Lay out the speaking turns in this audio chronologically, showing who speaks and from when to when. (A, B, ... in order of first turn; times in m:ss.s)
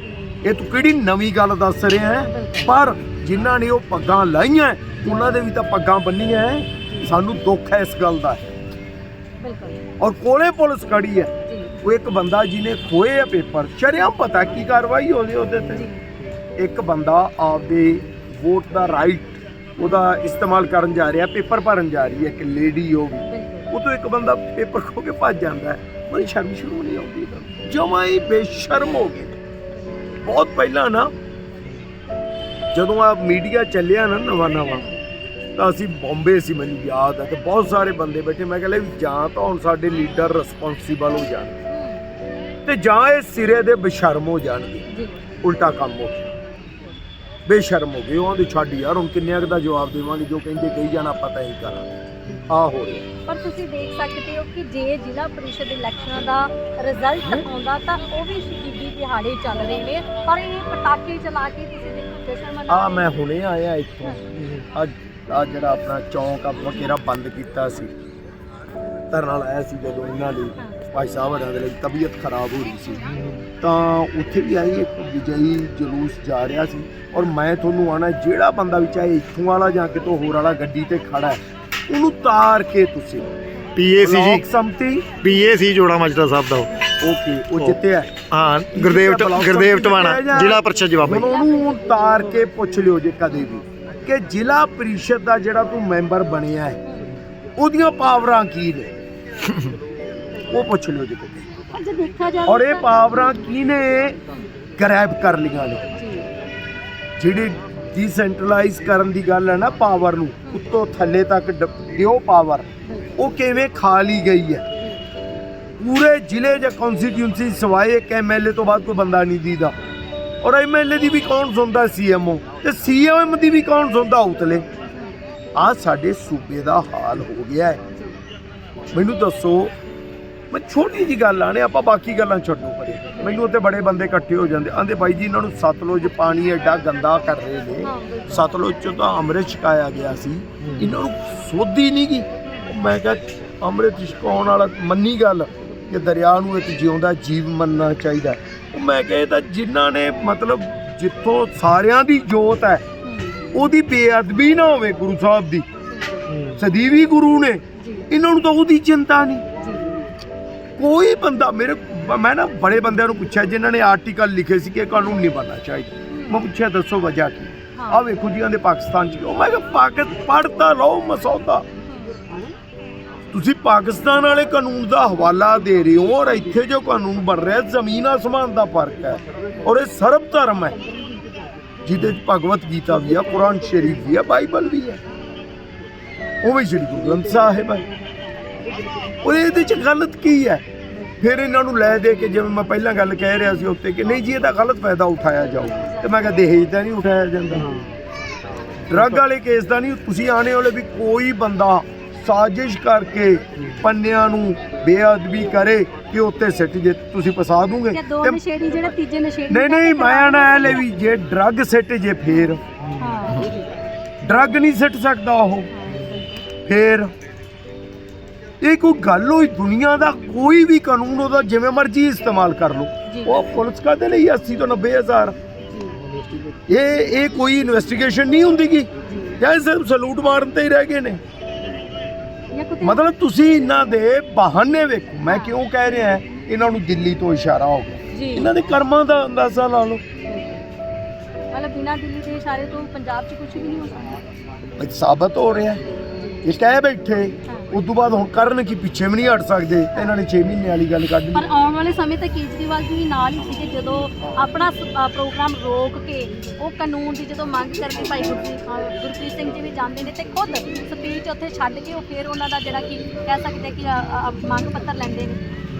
0:00.4-0:08.4 A
0:02.2-0:02.7 B
0:06.8-0:07.2 B
0:09.4-0:09.8 B
0:10.0-0:15.9 A
0:11.5-0:11.8 B
0:15.7-0:16.0 B
0:16.6-0:29.4 A
0:23.3-0:23.7 B
0:30.2-0:31.1 A
0:32.7-0:34.8 A
0:34.7-0:35.0 B
0:35.6-0:41.6 A
0:41.7-0:42.0 B
0:42.6-0:44.8 A
0:44.9-0:45.2 B
0:45.4-0:46.3 A
0:47.5-0:51.9 A
0:52.4-0:53.0 A
0:53.3-1:03.1 B
1:02.7-1:04.2 A
1:04.7-1:07.9 A
1:09.1-1:23.3 A
1:23.7-1:24.4 C
1:24.0-1:25.1 A
1:25.2-1:26.7 C
1:27.0-1:28.2 A
1:28.3-1:31.3 C
1:28.7-1:36.8 A
1:30.7-1:32.4 B
1:36.8-1:37.1 B
1:37.6-1:38.9 A
1:40.5-1:41.5 A
1:41.7-1:43.2 B
1:42.5-1:44.2 A
1:44.8-1:45.9 A
1:46.0-1:46.3 B
1:47.2-1:54.6 A
1:52.8-1:53.2 B
1:55.8-1:59.7 A
2:00.4-2:04.6 A
2:05.5-2:07.8 A
2:07.9-2:08.2 B
2:08.9-2:09.7 A
2:10.5-2:32.8 A
2:17.8-2:18.6 B
2:33.0-2:33.7 B
2:33.5-2:35.6 A
2:35.9-2:36.4 B
2:36.5-2:39.4 A
2:37.8-2:38.1 B
2:39.6-2:40.0 B
2:40.8-2:51.6 A
2:46.1-2:46.4 B
2:47.8-2:48.0 B
2:51.9-2:52.2 B
2:53.3-3:00.7 A
3:01.8-3:05.0 A
3:06.4-3:07.8 A
3:09.2-3:10.6 A
3:11.2-3:17.7 A
3:15.7-3:16.0 B
3:18.9-3:28.4 A
3:27.9-3:30.8 B
3:29.5-3:32.6 A
3:32.3-3:33.7 B
3:34.2-3:35.7 A
3:35.7-3:36.4 B
3:36.6-3:37.1 A
3:38.6-3:45.4 A
3:43.1-3:43.6 B
3:45.7-3:46.0 B
3:46.7-3:51.2 A
3:49.0-3:49.4 B
3:52.5-3:53.0 B
3:52.8-4:00.0 A
3:55.3-3:56.0 B
3:58.1-3:58.5 B
4:00.3-4:00.6 B
4:01.5-4:04.2 B
4:04.8-4:05.8 A
4:06.2-4:06.5 B
4:06.4-4:11.5 A
4:11.3-4:25.4 B